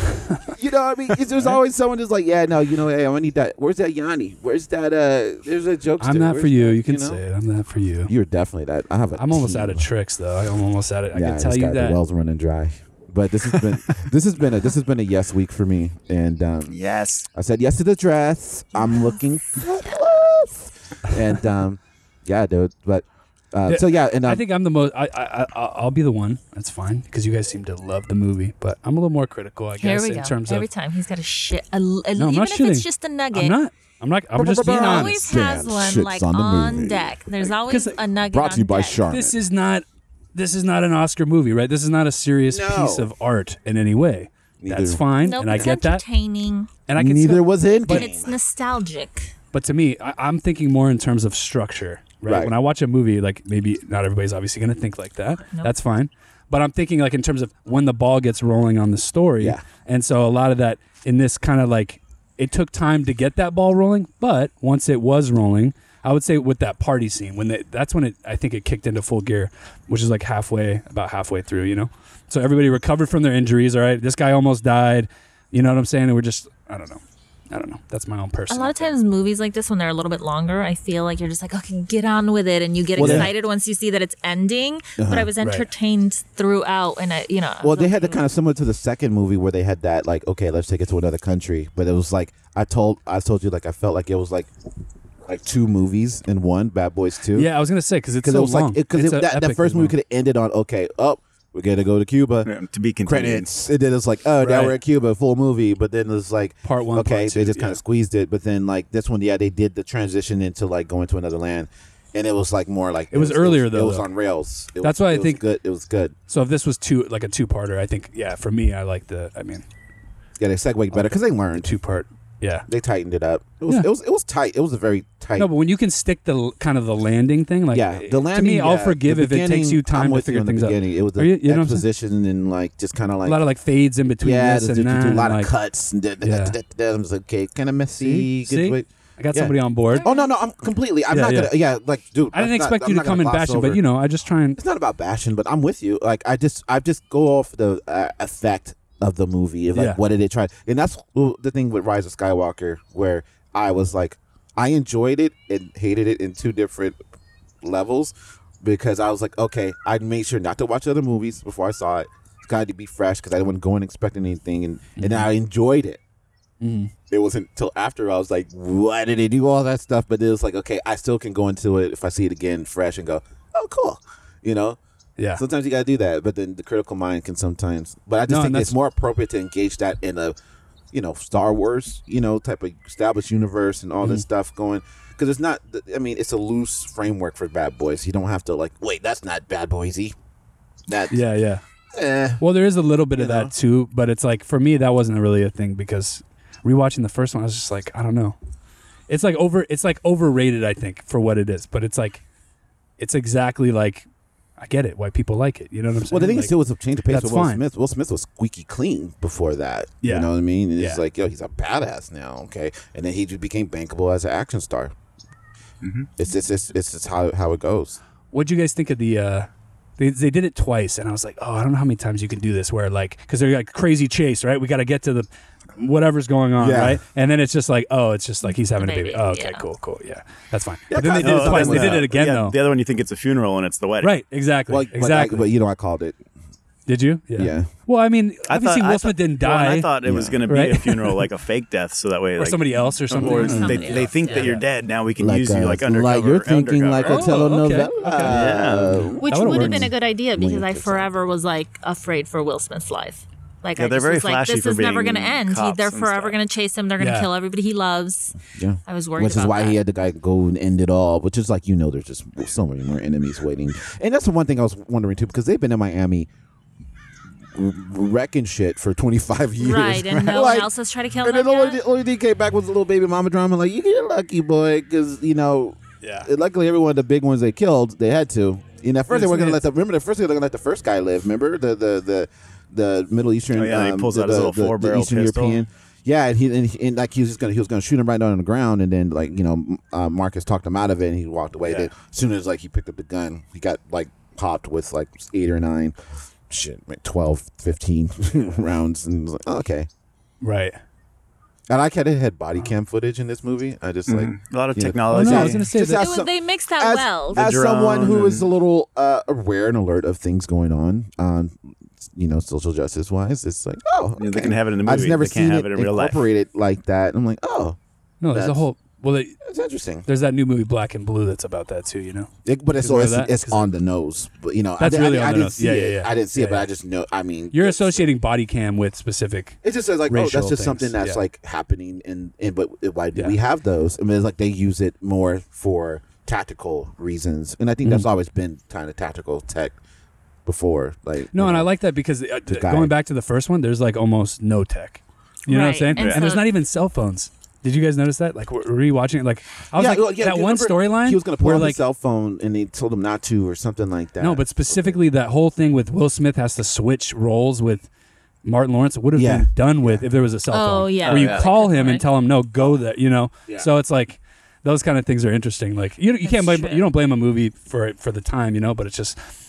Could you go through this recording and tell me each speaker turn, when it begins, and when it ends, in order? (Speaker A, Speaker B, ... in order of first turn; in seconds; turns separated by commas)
Speaker A: 0.1-0.5, Speaker B: 0.5-7.2, Speaker A: 6.0-8.1, Speaker B: 8.1-9.9, Speaker A: 9.2-12.0, Speaker B: 11.1-16.8, Speaker C: 16.7-17.3, Speaker B: 17.3-24.4, Speaker D: 18.8-19.1, Speaker A: 23.7-30.7, Speaker D: 29.8-33.6, Speaker A: 32.2-35.3, Speaker B: 34.3-37.4, Speaker D: 34.7-39.0, Speaker A: 37.7-38.0, Speaker B: 38.3-39.4, Speaker A: 39.1-46.0, Speaker B: 42.5-43.1, Speaker B: 44.6-45.7, Speaker D: 45.2-46.7, Speaker A: 46.9-48.1, Speaker B: 47.0-48.4, Speaker D: 47.8-49.3, Speaker A: 49.5-78.9, Speaker B: 52.2-52.5, Speaker B: 59.4-59.6, Speaker D: 78.5-88.2, Speaker B: 83.0-83.3, Speaker A: 83.0-83.3, Speaker B: 85.0-85.3, Speaker A: 85.4-85.7, Speaker B: 87.6-94.5, Speaker B: 95.2-97.5, Speaker A: 97.3-100.0, Speaker B: 98.2-102.5, Speaker C: 102.4-103.5, Speaker B: 103.0-116.2, Speaker A: 104.4-104.8, Speaker A: 106.6-107.8, Speaker A: 113.1-114.1, Speaker A: 114.8-115.4, Speaker A: 116.3-119.7, Speaker B: 120.4-121.7, Speaker A: 120.9-122.7, Speaker B: 122.7-125.5, Speaker A: 125.4-131.9, Speaker B: 127.7-133.4, Speaker A: 133.2-135.5, Speaker B: 134.2-143.8, Speaker A: 136.2-136.6, Speaker A: 138.0-140.1, Speaker D: 139.9-140.3, Speaker A: 141.1-141.5, Speaker A: 142.3-144.6, Speaker B: 144.6-157.0, Speaker A: 149.7-150.0, Speaker B: 157.6-166.0, Speaker A: 165.0-165.3, Speaker A: 166.6-166.9, Speaker B: 167.1-174.8, Speaker B: 175.3-180.4, Speaker A: 178.3-178.8, Speaker B: 180.9-190.2, Speaker B: 190.9-191.2, Speaker A: 191.1-191.6, Speaker B: 191.9-192.4, Speaker A: 192.4-198.4, Speaker B: 193.1-193.5, Speaker A: 199.1-202.2, Speaker A: 203.0-204.1, Speaker A: 204.6-206.6, Speaker B: 206.0-214.9, Speaker A: 207.1-207.6, Speaker A: 210.0-211.0, Speaker C: 215.8-216.1, Speaker B: 216.2-218.0, Speaker A: 218.3-232.6, Speaker B: 226.6-227.0, Speaker D: 228.4-229.7, Speaker B: 230.9-232.1, Speaker C: 231.0-234.2, Speaker A: 234.0-235.5, Speaker B: 234.7-236.2, Speaker A: 236.9-239.9, Speaker B: 237.4-237.7, Speaker C: 238.5-247.6, Speaker B: 240.0-240.4, Speaker A: 240.5-241.2, Speaker A: 242.4-244.6, Speaker D: 242.8-244.6, Speaker B: 245.2-251.1, Speaker A: 247.0-248.4, Speaker C: 248.1-249.1, Speaker A: 249.2-249.9, Speaker D: 249.2-259.8, Speaker C: 253.8-256.4, Speaker A: 257.0-257.3, Speaker B: 258.5-266.3, Speaker B: 267.5-270.7, Speaker D: 269.6-271.8, Speaker B: 271.2-295.9, Speaker A: 276.0-276.3, Speaker A: 279.1-279.6, Speaker C: 283.5-285.6, Speaker C: 291.6-291.9, Speaker B: 296.5-299.9, Speaker A: 300.4-300.8, Speaker B: 301.7-317.8, Speaker C: 304.1-305.6, Speaker A: 305.1-306.1, Speaker D: 305.9-307.5, Speaker C: 307.3-308.5, Speaker C: 314.2-316.2, Speaker A: 318.2-319.4, Speaker B: 318.3-318.6, Speaker B: 319.4-320.1, Speaker A: 320.1-323.7, Speaker B: 322.4-328.1, Speaker A: 324.8-326.7, Speaker A: 327.5-329.6, Speaker B: 329.6-339.8, Speaker A: 330.1-331.2, Speaker B: 340.4-341.7, Speaker A: 341.3-351.8, Speaker B: 342.5-342.9, Speaker D: 345.5-346.5, Speaker C: 346.0-346.3, Speaker B: 349.7-355.1, Speaker A: 354.2-357.9, Speaker A: 358.4-369.2, Speaker B: 359.1-360.1, Speaker D: 360.5-362.1, Speaker C: 361.0-361.5, Speaker D: 366.2-366.9